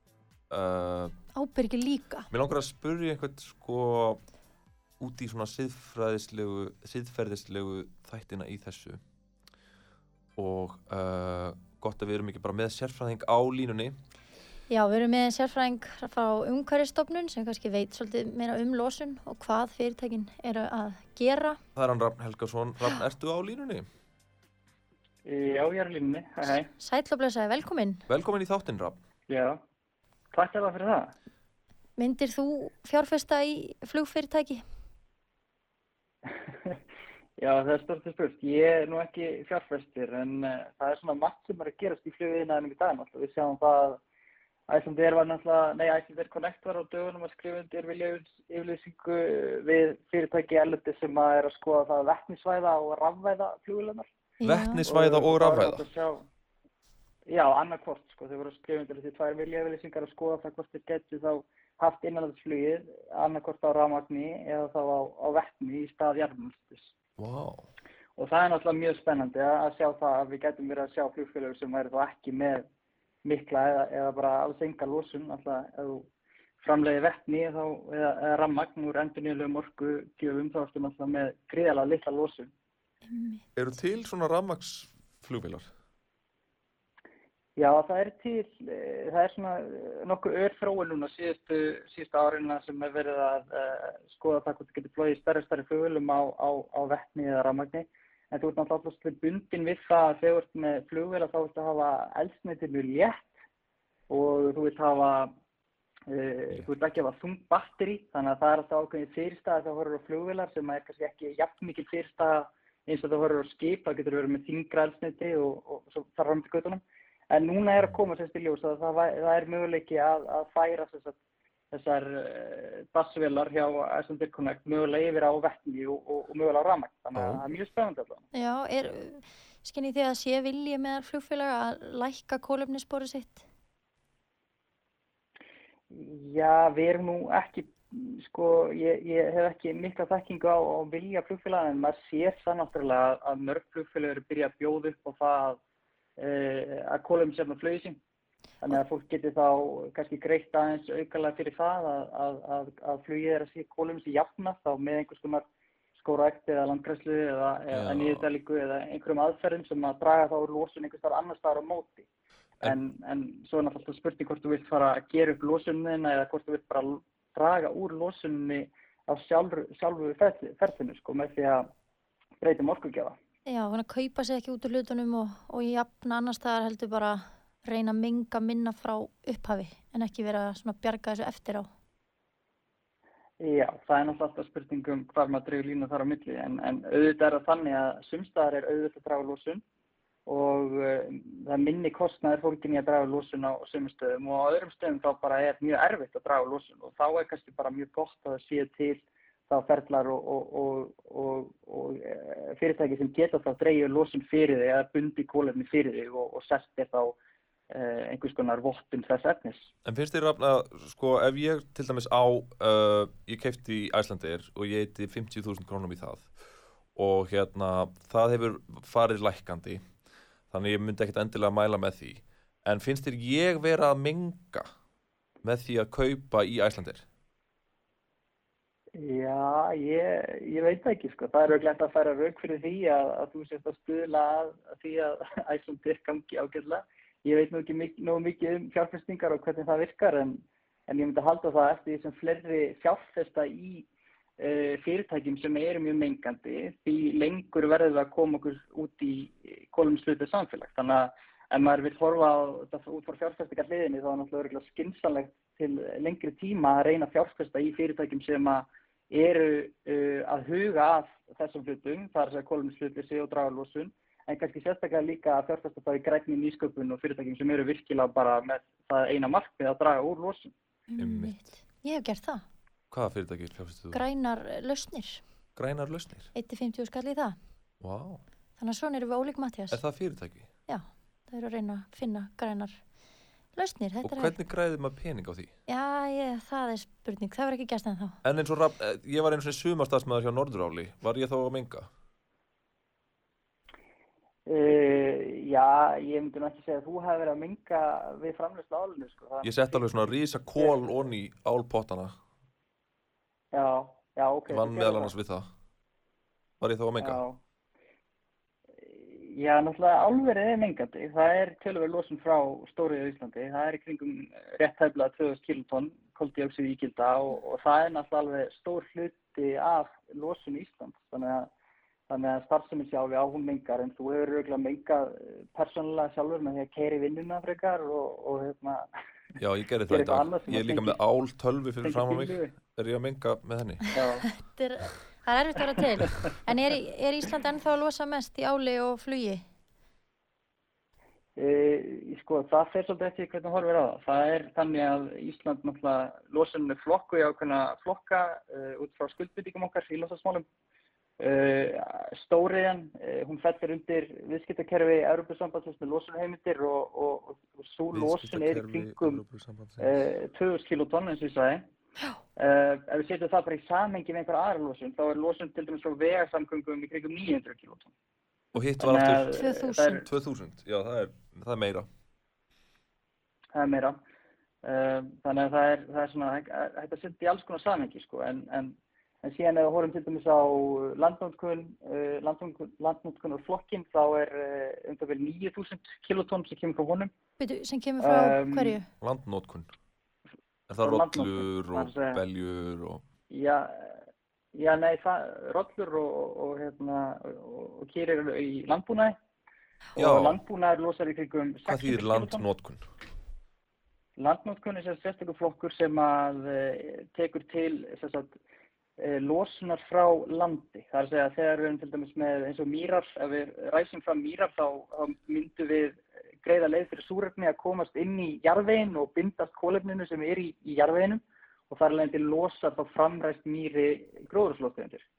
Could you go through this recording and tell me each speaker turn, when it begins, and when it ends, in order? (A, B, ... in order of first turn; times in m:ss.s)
0:00.5-0:01.1 A
0:01.3-0:02.3 B
0:02.3-0:04.2 A
0:05.0-0:09.0 A
0:10.4-0:14.0 A
0:14.7-0:21.6 B
0:21.7-0:23.9 A
0:25.2-0:26.7 C
0:26.8-0:28.0 B
0:28.1-0:29.0 A
0:29.3-0:29.6 C
0:30.3-0:31.1 C
0:32.0-0:34.6 B
0:36.3-0:36.8 C
0:37.4-0:44.0 C
0:44.7-0:54.1 C
0:54.4-0:54.8 B
0:54.4-0:55.8 A
0:54.8-0:56.3 C
0:57.3-1:06.9 C
1:07.2-1:07.7 A
1:08.2-1:12.7 C
1:13.2-1:16.1 C
1:16.6-1:22.5 C
1:23.0-1:23.4 B
1:23.6-1:25.7 A
1:27.6-1:43.3 C
1:44.1-1:45.3 C
1:46.1-2:01.2 C
2:01.7-2:08.2 C
2:07.1-2:07.4 A
2:08.3-2:13.4 B
2:15.9-2:25.6 C
2:26.2-2:28.0 C
2:28.6-2:35.4 C
2:36.0-2:42.1 C
2:37.7-2:38.3 A
2:42.6-2:51.7 C
2:52.4-2:53.2 C
2:53.4-3:01.7 B
3:03.4-3:09.6 C
3:10.3-3:27.2 C
3:27.7-3:29.7 C
3:29.8-3:36.3 A
3:36.9-3:39.8 A
3:40.5-3:44.7 A
3:45.4-3:47.0 A
3:49.0-4:03.9 C
4:04.4-4:30.5 C
4:30.9-4:32.4 B
4:31.0-4:31.5 A
4:32.9-4:34.0 A
4:33.9-4:35.2 B
4:35.6-4:36.3 A
4:36.3-4:37.4 B
4:37.8-4:38.2 A
4:38.6-4:39.8 B
4:39.7-4:40.5 A
4:40.7-4:42.8 B
4:43.6-4:44.4 B
4:44.0-4:45.5 A
4:45.7-4:48.2 B
4:48.2-4:51.9 A
4:54.5-5:00.8 C
4:59.4-5:02.2 A
5:03.5-5:05.1 C
5:04.5-5:05.5 A
5:06.6-5:07.2 A
5:07.0-5:07.4 C
5:08.9-5:21.5 C
5:22.1-5:28.9 C
5:29.4-5:33.8 A
5:29.9-5:31.0 C
5:31.8-5:32.5 C
5:33.9-5:34.2 C
5:34.3-5:39.4 B
5:41.4-5:50.4 C
5:51.2-5:59.2 C
5:57.9-6:00.0 A
5:59.8-6:01.6 C
6:02.4-6:07.9 C
6:08.5-6:11.9 A
6:08.8-6:10.0 C
6:09.3-6:10.0 B
6:13.5-6:14.0 C
6:14.6-6:27.1 C
6:27.4-6:28.9 B
6:28.0-6:28.8 C
6:29.0-6:29.7 A
6:30.7-6:33.0 A
6:30.8-6:32.2 C
6:33.3-6:34.0 C
6:34.5-6:39.2 C
6:40.0-6:40.4 A
6:40.0-6:42.4 C
6:41.6-6:42.8 A
6:44.2-6:48.4 C
6:49.0-7:05.0 C